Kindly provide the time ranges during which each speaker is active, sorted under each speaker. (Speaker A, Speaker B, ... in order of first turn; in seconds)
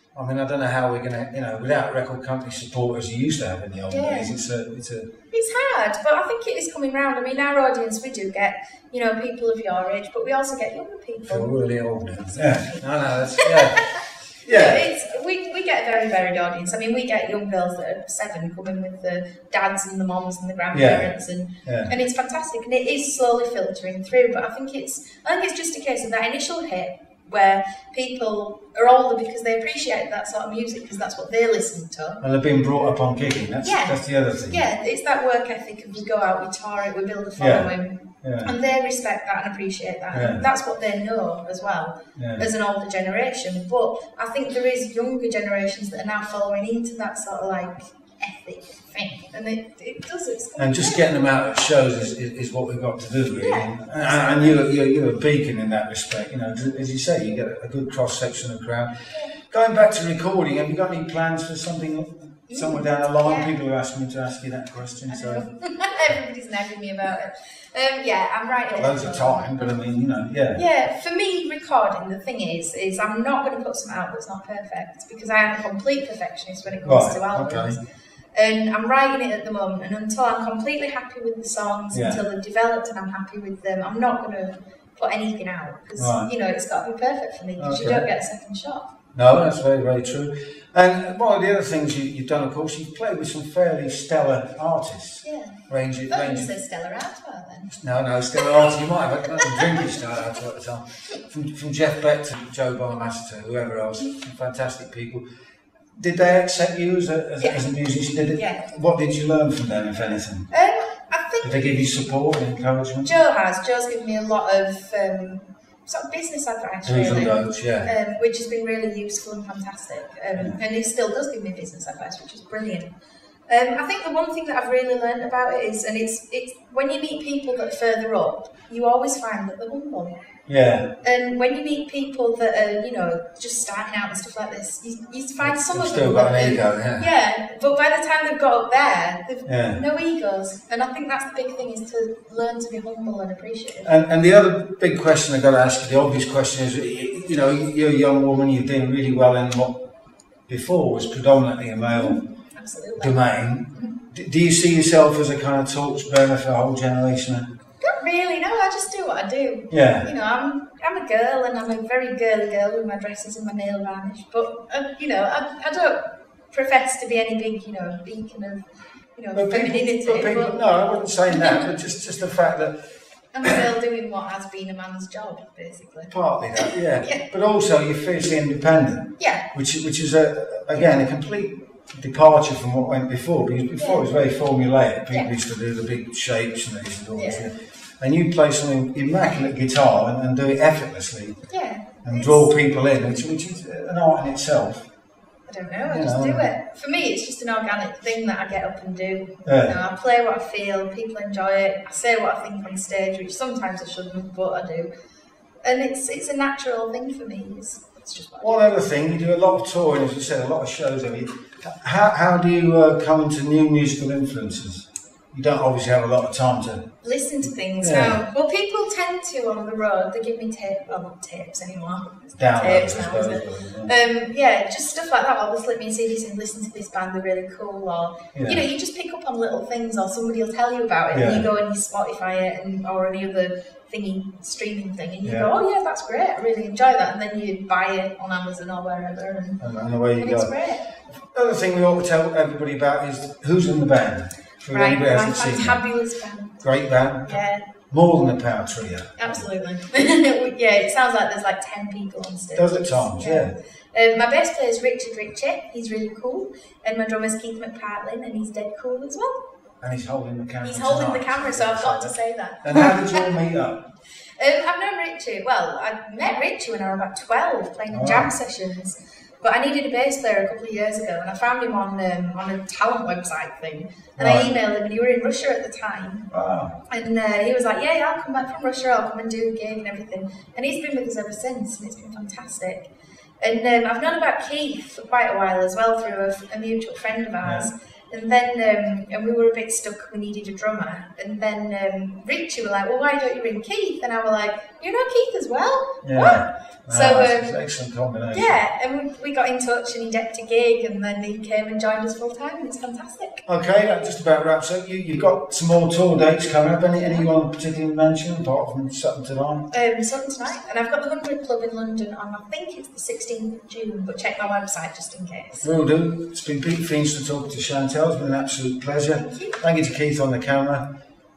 Speaker A: 0.1-5.1, 11.2-13.8, 14.4-14.9, 20.7-21.1, 21.6-21.9, 32.2-34.6, 37.4-37.7, 38.2-38.5, 40.1-40.4, 42.1-42.5, 50.6-65.5, 68.7-70.6, 76.8-77.8, 81.9-82.2, 86.0-86.3, 87.6-88.0, 89.1-96.5, 97.7-105.2, 105.9-110.5, 111.4-113.1, 116.8-117.9, 130.5-130.9, 135.4-137.1, 139.4-139.8, 143.8-149.7, 150.5-152.2, 153.0-157.4, 159.7-160.1, 169.3-172.7, 176.1-191.4, 192.0-194.8, 195.8-196.5, 199.4-199.8, 208.4-216.8, 217.8-218.2, 222.4-223.9, 228.3-228.6, 231.1-231.4, 235.2-235.5, 239.6-240.5, 241.1-245.8, 246.6-249.4, 252.5-253.5, 259.8-263.8, 267.9-268.3, 274.2-274.5, 276.3-276.7, 287.4-287.7, 296.0-298.6, 303.4-309.6, 315.6-320.8
Speaker B: 3.9-4.3, 5.3-11.5, 12.1-32.2, 33.6-51.1, 53.4-54.6, 62.5-63.5, 65.1-69.7, 70.5-77.8, 78.3-88.9, 95.2-97.7, 98.3-98.8, 99.3-99.9, 107.4-107.7, 108.3-108.7, 110.5-111.5, 113.0-122.9, 123.5-130.2, 131.0-143.9, 151.9-153.2, 157.8-168.6, 169.2-171.7, 173.3-177.2, 179.2-179.4, 183.8-184.1, 187.1-187.5, 191.5-192.5, 195.5-204.9, 205.6-208.7, 217.0-239.6, 240.2-240.8, 244.7-246.6, 247.3-247.6, 249.2-259.4, 260.6-263.3, 264.4-276.3, 276.9-282.9, 283.4-297.6, 298.3-303.4, 309.7-315.7, 319.1-319.6